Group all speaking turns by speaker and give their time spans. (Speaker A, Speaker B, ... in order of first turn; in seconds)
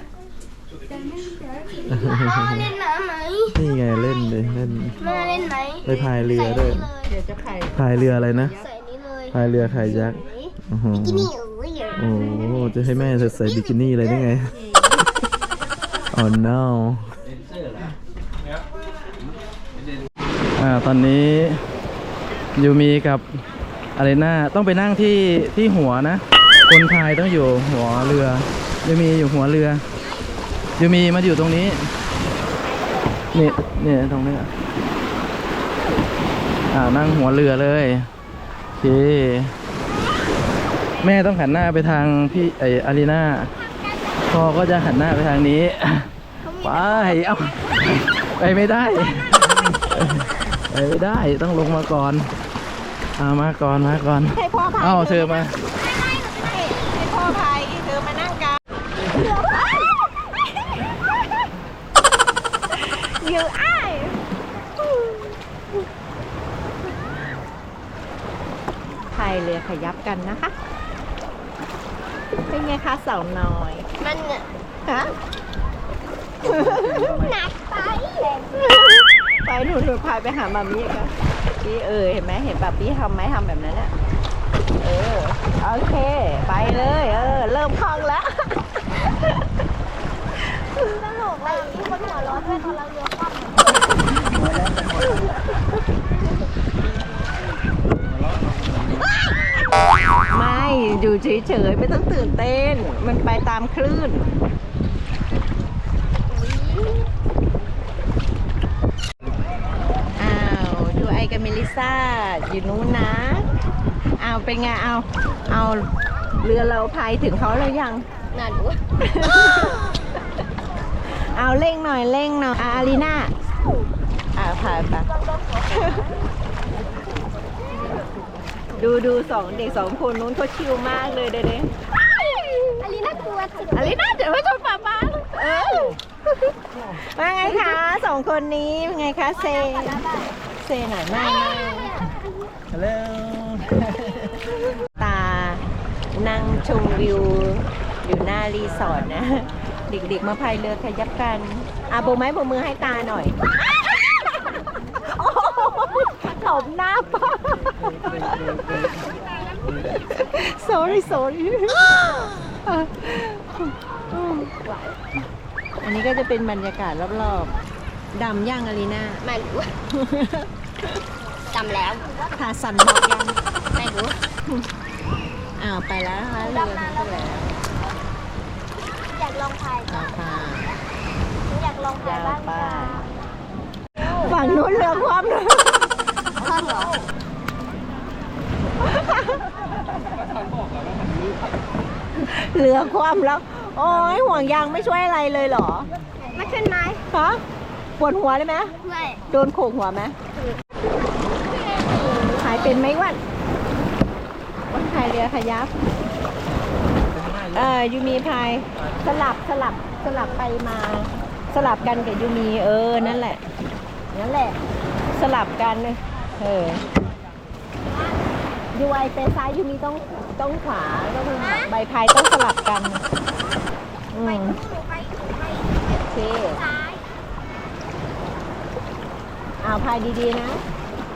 Speaker A: 1.9-3.5, 5.0-5.8, 8.6-9.3, 11.2-11.9, 74.0-74.5, 77.1-78.5, 90.8-93.8, 118.3-118.8, 132.1-133.9, 139.6-140.3, 141.5-142.0, 169.3-169.7, 171.5-172.3, 173.8-174.1, 176.4-177.3, 179.1-180.0, 181.5-183.1, 186.4-187.0, 196.3-197.0, 198.8-199.2, 201.6-202.4, 224.4-227.0
Speaker B: 1.9-2.7, 3.6-5.0, 5.9-6.9, 7.7-8.5, 9.3-11.3, 12.0-14.5, 16.1-17.2, 20.6-21.6, 22.6-23.2, 23.9-29.8, 30.8-31.9, 33.3-34.5, 36.7-38.1, 38.8-39.6, 41.0-43.5, 44.2-52.3, 53.2-55.6, 142.7-143.9
Speaker C: 54.3-58.6, 59.3-59.9, 62.7-64.2, 64.8-65.3, 69.1-70.5, 72.5-73.9, 74.9-75.1, 76.4-77.3, 78.6-83.9, 84.8-89.3, 92.0-92.5, 100.3-104.3, 110.2-113.5, 114.2-115.9, 116.4-118.1, 119.0-119.9, 121.2-123.3, 124.3-125.1, 125.7-126.1, 128.8-131.8, 133.7-140.0, 140.6-142.0, 145.0-153.4, 155.1-158.8, 159.7-162.0, 162.6-164.6, 165.8-167.6, 168.1-169.3, 169.9-170.5, 172.3-173.4, 175.6-177.5, 179.9-180.7, 182.0-183.1, 184.0-185.9, 188.8-189.4, 192.2-195.9, 197.1-197.4, 198.0-198.7, 199.3-200.2, 202.3-203.2, 204.7-205.7, 207.4-213.4, 214.1-214.6, 215.1-216.8, 218.7-223.0, 224.1-224.6, 226.0-226.6, 229.6-230.6